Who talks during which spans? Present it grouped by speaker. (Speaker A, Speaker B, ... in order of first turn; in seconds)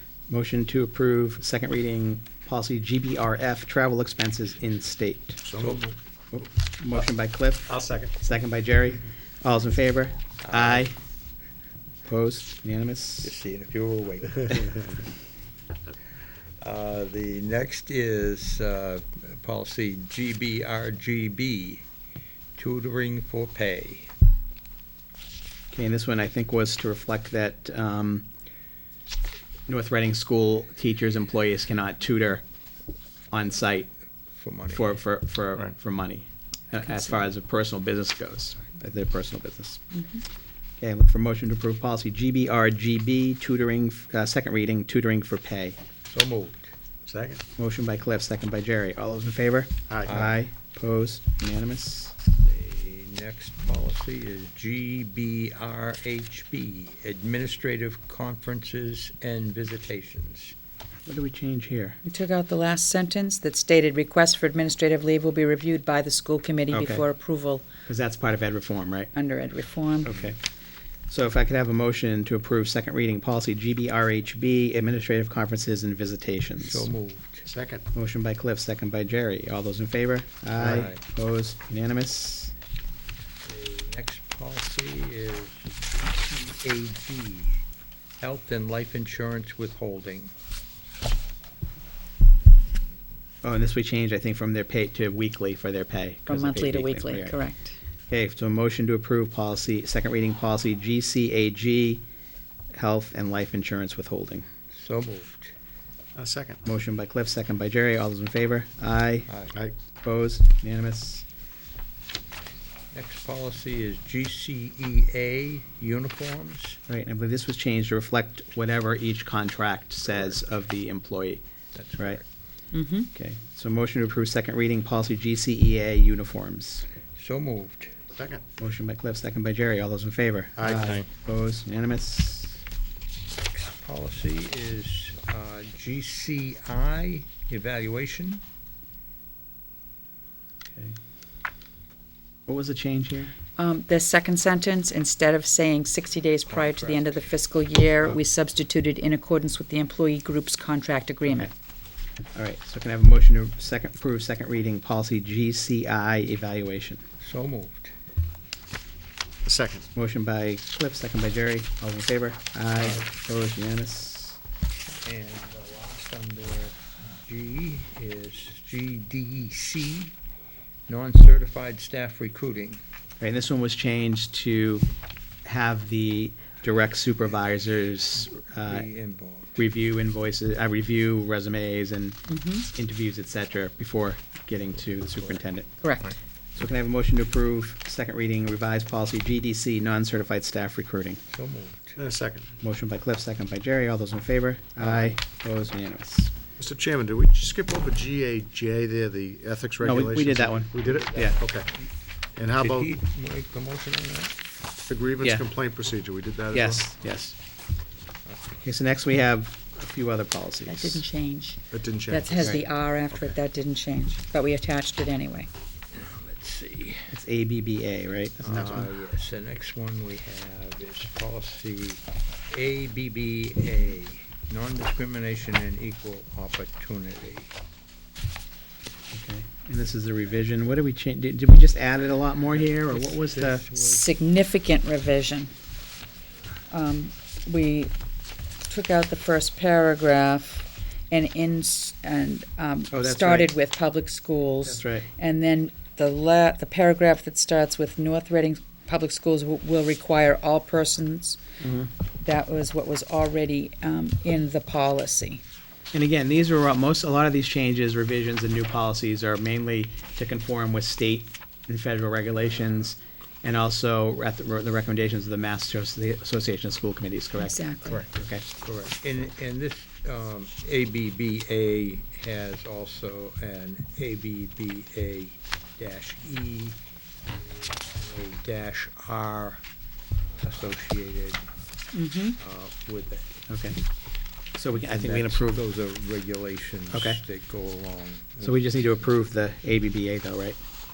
Speaker A: 0.3-5.4, 6.3-11.0, 12.1-13.3, 25.7-28.3, 29.7-32.4, 33.3-33.9, 34.7-39.8, 40.8-45.8, 47.6-52.2, 61.1-62.0, 66.7-67.1, 67.9-69.1, 70.0-70.4, 71.1-76.9, 77.9-82.5, 93.4-97.4, 98.1-102.0, 102.7-104.5, 106.7-109.3, 110.0-111.3, 116.9-121.4, 123.1-126.8, 128.6-132.6, 142.5-143.3, 152.3-157.0, 159.9-164.4, 173.2-174.9, 175.4-178.9, 179.6-185.8, 186.6-191.2, 192.6-196.3, 199.8-201.4, 206.5-207.3, 208.6-211.0, 217.1-218.9, 229.1-233.7, 242.9-243.5, 244.7-245.1, 251.6-251.9, 255.9-268.4, 283.5-283.8, 284.6-285.6, 286.9-287.2, 288.4-290.6
Speaker B: 5.4-5.8, 7.7-8.2, 47.1-47.4, 49.9-50.3, 77.5-77.9, 106.2-106.6, 128.1-128.5, 130.6-131.1, 159.4-159.9, 192.0-192.5, 196.6-201.7, 202.3-202.9, 204.9-206.9, 211.7-212.6, 218.5-218.9
Speaker C: 5.6-6.0, 10.4-10.9, 13.2-15.0, 16.6-21.9, 22.6-24.1, 34.4-35.0, 46.1-46.7, 50.1-50.4, 52.3-60.5, 76.6-77.5, 80.6-81.0, 83.5-87.5, 88.2-90.3, 104.7-105.5, 109.3-109.6, 112.9-116.8, 121.7-122.2, 127.2-128.0, 133.5-138.4, 146.5-147.1, 157.2-157.9, 164.9-170.1, 170.9-172.8, 178.6-179.6, 185.2-185.4, 191.3-192.0, 200.8-201.9, 202.6-204.3, 215.9-217.2, 218.4-227.5, 232.6-234.0, 268.6-276.8, 277.3-279.6, 280.4-281.5, 282.4-283.3, 284.7-288.6
Speaker D: 39.9-40.2, 62.0-67.7, 69.1-70.2, 96.3-97.8, 122.7-123.1, 143.6-151.5, 182.3-182.7, 185.8-186.1, 210.7-215.5, 233.7-235.5, 236.7-237.9, 238.7-251.4, 252.2-255.4, 267.4-268.0, 281.9-282.4